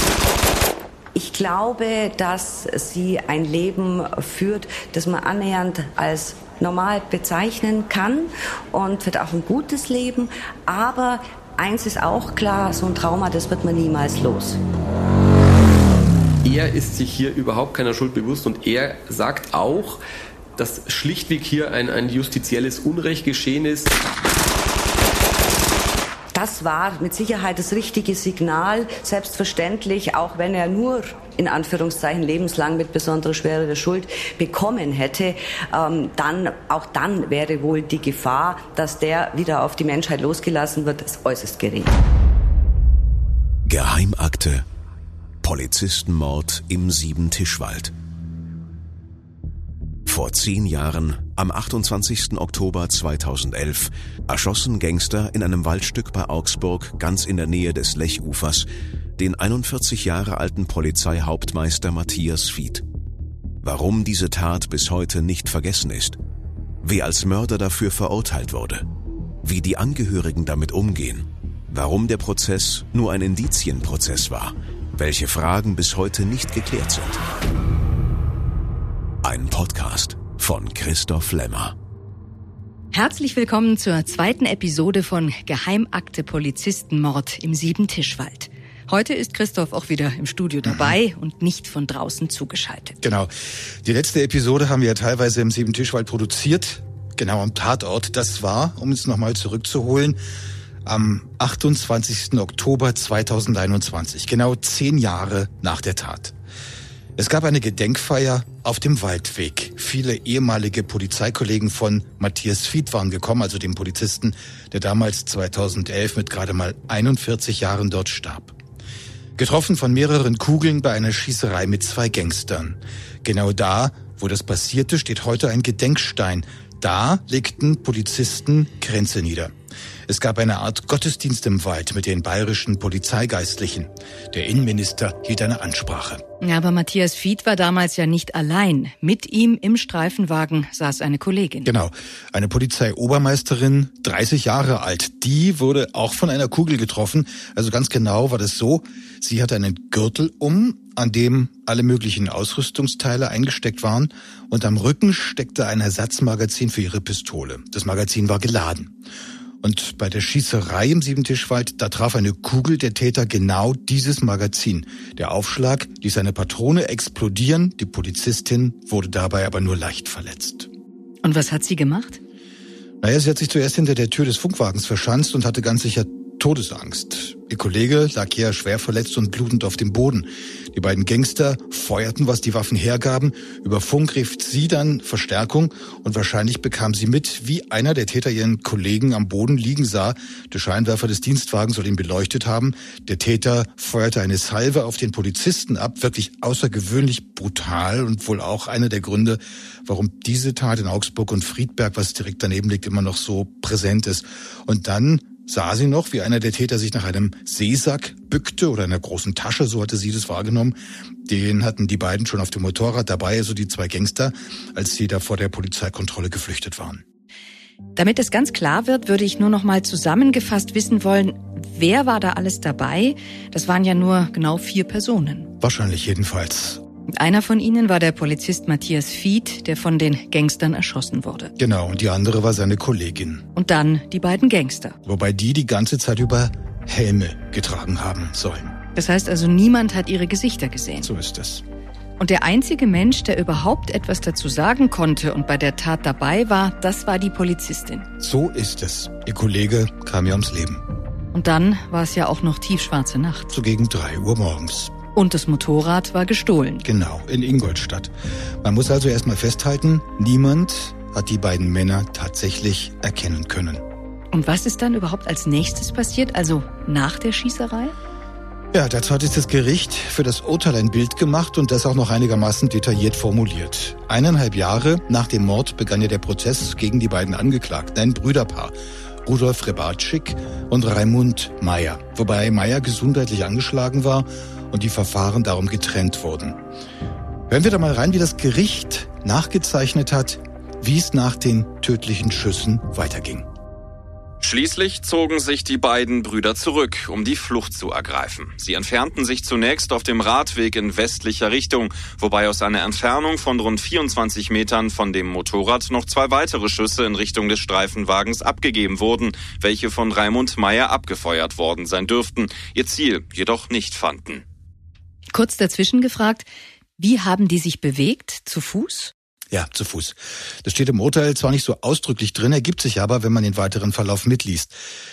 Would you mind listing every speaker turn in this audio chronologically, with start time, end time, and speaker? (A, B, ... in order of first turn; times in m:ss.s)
0:01.1-0:14.6 A
0:16.5-0:19.9 B
0:20.7-0:23.9 B
0:26.3-0:41.9 A
0:43.7-0:44.6 C
0:45.4-0:47.9 C
0:50.1-1:02.8 C
1:03.6-1:06.2 C
1:06.8-1:08.8 C
1:09.4-1:17.2 C
1:19.2-1:21.7 C
1:22.9-1:33.0 D
1:30.6-1:31.0 E
1:33.0-1:33.3 E
1:33.8-1:40.2 E
1:40.8-1:46.3 E
1:47.2-1:58.6 E
1:59.4-2:09.5 E
2:10.1-2:16.2 E
2:16.4-2:21.7 D
2:21.6-2:38.9 E
2:39.6-2:50.7 E
2:51.2-2:52.2 D
2:53.0-3:37.0 E
3:37.9-3:45.5 D
3:45.6-3:46.8 E
3:47.1-3:51.5 D
3:51.6-3:53.4 E
3:53.5-3:55.0 D
3:55.0-3:58.8 E
3:58.9-4:01.1 D
4:01.0-4:01.6 E
4:02.2-4:08.1 D
4:08.2-4:10.8 E
4:11.3-4:13.5 D
4:13.5-4:14.9 E
4:15.1-4:16.8 D
4:16.8-4:23.8 E
4:24.3-4:27.9 D
4:28.7-4:46.6 E
4:47.5-4:53.5 E
4:54.4-5:14.4 F
5:15.3-5:16.5 D
5:17.0-5:19.1 D
5:19.5-5:24.8 E